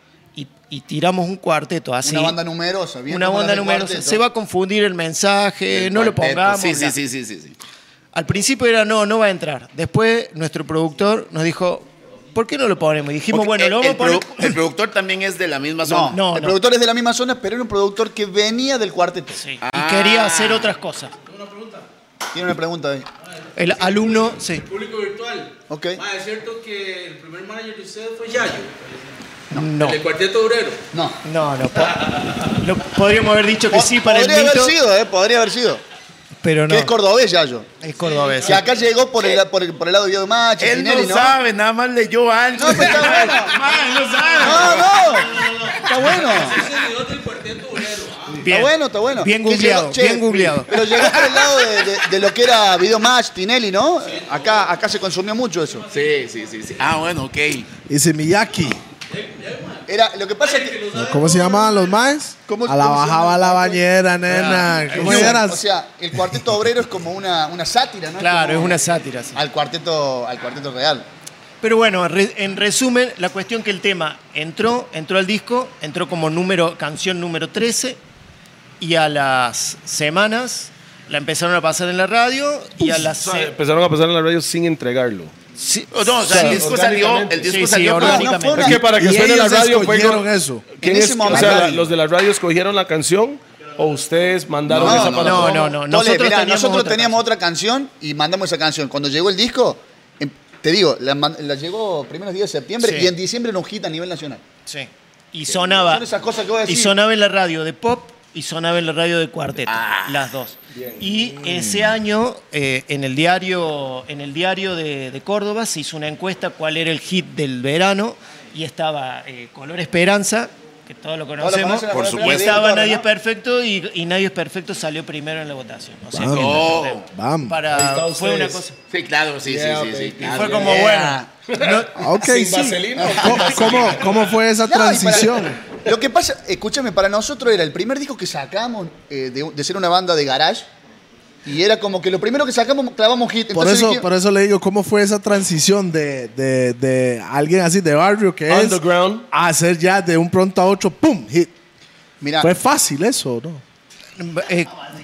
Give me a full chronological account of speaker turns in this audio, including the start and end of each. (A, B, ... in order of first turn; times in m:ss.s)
0:00.4-0:02.4 A
0:02.0-0:04.2 B
0:03.1-0:07.0 A
0:05.7-0:07.6 C
0:08.2-0:14.6 A
0:13.3-0:16.2 C
0:15.9-0:19.4 B
0:16.1-0:16.6 A
0:19.3-0:21.2 A
0:19.6-0:20.7 C
0:21.2-0:21.9 D
0:22.3-0:23.1 B
0:23.6-0:24.6 A
0:23.6-0:29.2 D
0:25.7-0:26.0 B
0:29.5-0:30.0 A
0:29.8-0:30.8 D
0:30.9-0:31.2 B
0:31.2-0:34.8 A
0:33.7-0:35.8 B
0:36.4-0:36.9 A
0:36.7-0:37.7 B
0:37.8-0:38.6 A
0:37.9-0:38.8 D
0:38.4-0:41.4 B
0:40.6-0:44.9 C
0:42.6-0:43.6 B
0:43.0-0:48.4 D
0:44.4-0:46.7 B
0:48.4-0:50.8 A
0:48.5-0:55.9 B
0:51.0-0:51.4 C
0:54.1-0:54.6 D
0:55.7-0:57.2 D
0:55.9-0:57.7 C
0:57.9-0:58.8 E
0:59.1-1:02.0 D
0:59.9-1:00.9 B
1:00.9-1:05.6 E
1:02.5-1:03.8 B
1:04.3-1:05.4 A
1:04.9-1:08.8 B
1:08.2-1:09.4 A
1:09.4-1:11.1 B
1:11.6-1:18.0 A
1:18.8-1:23.5 A
1:22.8-1:25.3 F
1:25.6-1:26.7 A
1:25.9-1:28.4 C
1:26.3-1:27.5 F
1:27.4-1:28.8 A
1:27.9-1:28.8 B
1:28.6-1:35.7 F
1:28.8-1:30.6 E
1:30.8-1:31.9 B
1:34.7-1:35.5 C
1:34.7-1:44.4 B
1:34.9-1:37.2 A
1:42.8-1:43.1 A
1:44.7-1:46.0 A
1:45.5-1:45.8 C
1:45.8-1:47.0 B
1:46.6-2:08.8 A
1:49.7-1:50.3 C
1:51.4-1:51.9 E
2:01.4-2:03.1 B
2:01.9-2:02.6 C
2:06.1-2:07.6 E
2:06.2-2:07.1 C
2:07.7-2:08.6 F
2:08.9-2:10.9 C
2:09.4-2:10.7 F
2:10.2-2:12.1 A
2:10.6-2:11.3 B
2:11.5-2:14.3 F
2:12.0-2:15.6 E
2:13.0-2:13.5 B
2:14.6-2:20.7 B
2:21.4-2:24.1 B
2:23.5-2:28.8 E
2:28.5-2:29.3 F
2:29.3-2:31.5 E
2:32.2-2:32.5 B
2:32.4-2:33.6 E
2:34.2-2:34.7 A